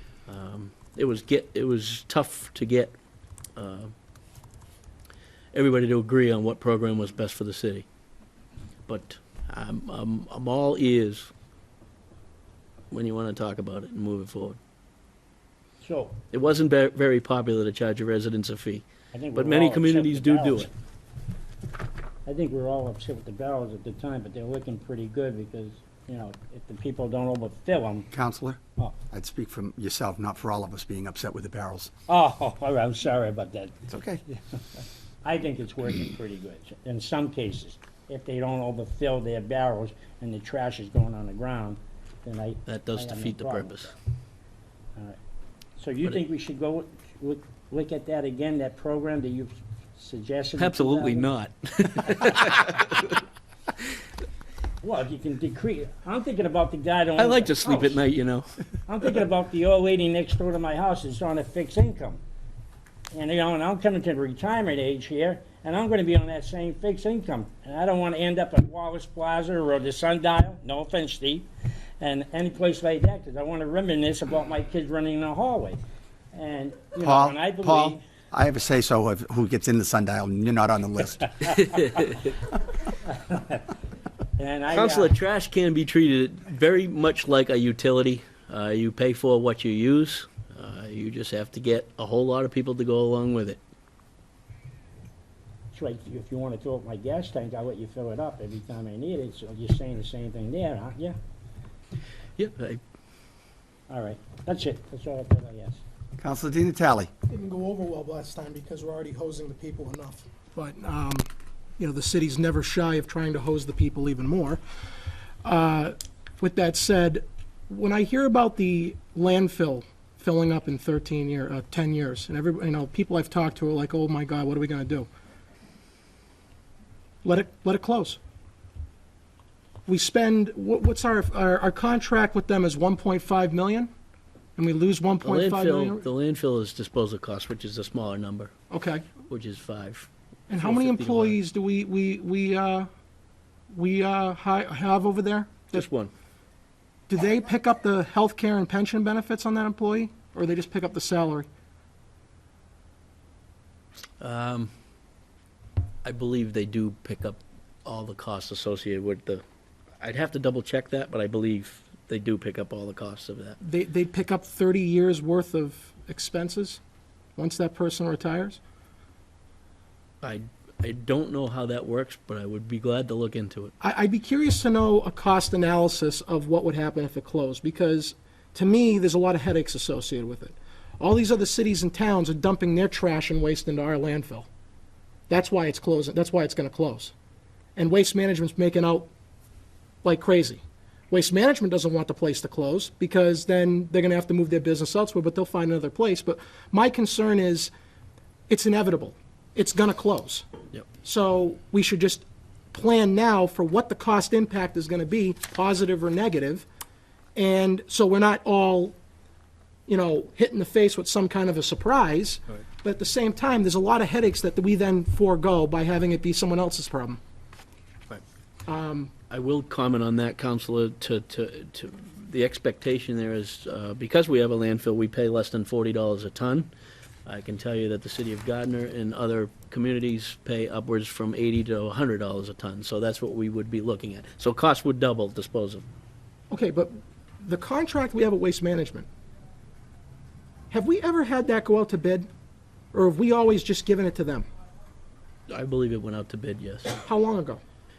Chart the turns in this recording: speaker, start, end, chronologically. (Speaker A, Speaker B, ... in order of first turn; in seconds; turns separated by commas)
Speaker A: 0.3-2.9, Speaker A: 3.5-3.9, Speaker A: 5.5-7.8, Speaker A: 8.9-11.3, Speaker A: 12.9-14.6, Speaker B: 15.8-16.2, Speaker A: 16.3-20.7, Speaker B: 19.1-20.7, Speaker B: 22.2-28.1, Speaker C: 28.1-31.9, Speaker B: 32.1-33.8, Speaker C: 33.9-34.2, Speaker B: 35.2-43.9, Speaker A: 42.7-43.9, Speaker B: 45.8-51.3, Speaker A: 50.6-53.1, Speaker B: 54.8-58.0, Speaker A: 57.2-58.5, Speaker B: 58.9-62.2, Speaker B: 63.1-71.5, Speaker B: 72.0-75.8, Speaker B: 76.3-78.0, Speaker C: 77.0-81.4, Speaker A: 81.5-82.2, Speaker B: 81.5-82.2, Speaker B: 83.1-83.6, Speaker B: 84.4-85.1, Speaker A: 84.7-93.6, Speaker B: 95.7-101.2, Speaker A: 102.4-102.8, Speaker B: 103.9-105.8, Speaker C: 106.2-107.1, Speaker D: 107.3-111.3, Speaker D: 111.8-114.6, Speaker D: 115.4-125.1, Speaker D: 127.2-128.2, Speaker D: 129.8-133.9, Speaker D: 134.6-136.1, Speaker A: 135.2-138.5, Speaker D: 138.7-139.1, Speaker A: 139.2-141.4, Speaker D: 140.5-142.9, Speaker D: 143.7-145.8, Speaker A: 145.7-146.1, Speaker D: 147.1-151.5, Speaker A: 154.2-154.7, Speaker A: 156.0-159.4, Speaker A: 160.0-163.6, Speaker D: 163.6-166.8, Speaker D: 167.4-168.6, Speaker A: 170.2-173.7, Speaker D: 173.8-184.5, Speaker D: 185.3-187.1, Speaker D: 187.8-189.1, Speaker D: 190.0-197.7, Speaker D: 198.5-200.4, Speaker D: 201.0-206.6, Speaker D: 207.3-208.9, Speaker D: 209.9-217.2, Speaker D: 218.7-219.1, Speaker A: 219.3-226.7, Speaker A: 227.2-235.8, Speaker D: 236.5-239.1, Speaker D: 240.7-242.3, Speaker D: 242.9-244.5, Speaker A: 245.5-247.0, Speaker D: 247.0-247.6